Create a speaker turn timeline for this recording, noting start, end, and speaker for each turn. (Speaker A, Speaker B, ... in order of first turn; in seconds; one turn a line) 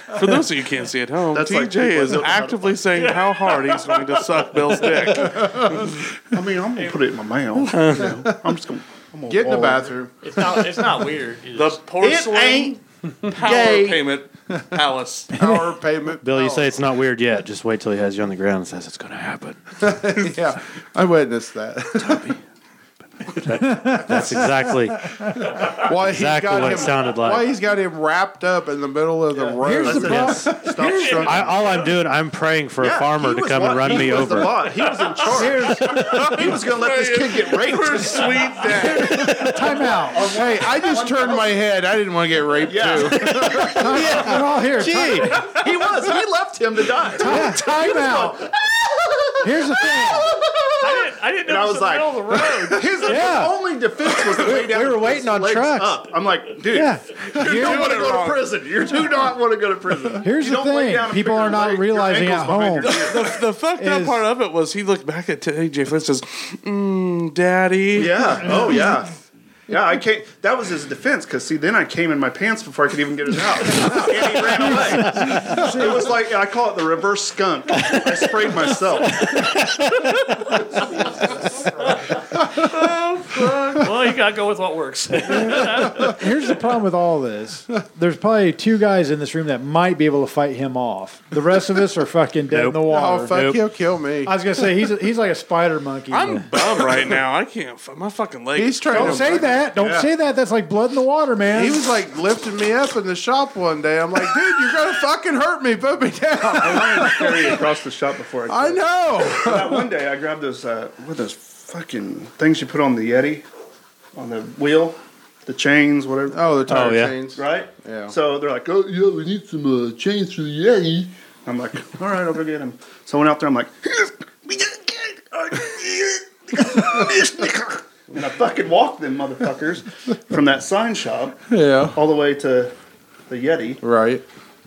Speaker A: 0.1-5.7
Speaker B: 1.3-2.9
Speaker C: 2.9-5.4
Speaker D: 5.4-5.8
Speaker B: 6.3-10.0
Speaker E: 7.7-8.2
Speaker D: 9.3-10.8
Speaker C: 10.2-11.8
Speaker A: 11.5-15.3
Speaker B: 12.0-12.8
Speaker B: 13.5-14.0
Speaker D: 15.3-16.8
Speaker F: 15.3-15.7
Speaker E: 16.2-19.6
Speaker D: 19.8-22.3
Speaker E: 23.4-25.1
Speaker F: 23.6-24.2
Speaker D: 24.1-24.5
Speaker F: 25.0-25.4
Speaker D: 25.6-31.6
Speaker E: 26.0-27.5
Speaker B: 29.3-31.9
Speaker F: 29.6-30.7
Speaker E: 30.1-30.4
Speaker C: 30.8-31.3
Speaker E: 31.2-34.6
Speaker B: 32.8-41.6
Speaker C: 34.6-35.1
Speaker F: 35.3-36.0
Speaker A: 35.9-39.5
Speaker F: 39.4-40.3
Speaker D: 40.2-44.5
Speaker B: 42.6-44.5
Speaker F: 43.7-45.4
Speaker E: 44.8-45.4
Speaker B: 45.1-63.4
Speaker F: 47.2-48.4
Speaker F: 49.4-50.3
Speaker C: 50.8-53.3
Speaker F: 53.0-53.6
Speaker F: 54.4-56.0
Speaker F: 56.7-57.9
Speaker A: 57.4-58.5
Speaker F: 60.2-63.1
Speaker A: 62.9-68.4
Speaker F: 63.8-64.2
Speaker B: 67.9-69.2
Speaker B: 69.7-79.6
Speaker F: 75.0-75.9
Speaker E: 79.4-79.9
Speaker A: 82.6-83.9
Speaker C: 83.8-86.3
Speaker F: 85.3-93.4
Speaker E: 92.5-93.6
Speaker D: 92.9-94.7
Speaker F: 94.2-96.5
Speaker A: 96.1-99.2
Speaker D: 98.5-99.7
Speaker F: 98.9-101.8
Speaker B: 99.8-100.1
Speaker D: 101.5-107.6
Speaker B: 106.5-113.5
Speaker D: 108.5-109.9
Speaker B: 114.2-116.5
Speaker D: 116.3-118.1
Speaker E: 116.7-117.2
Speaker B: 117.3-132.7
Speaker D: 131.5-132.0
Speaker B: 133.3-133.8
Speaker D: 133.8-134.2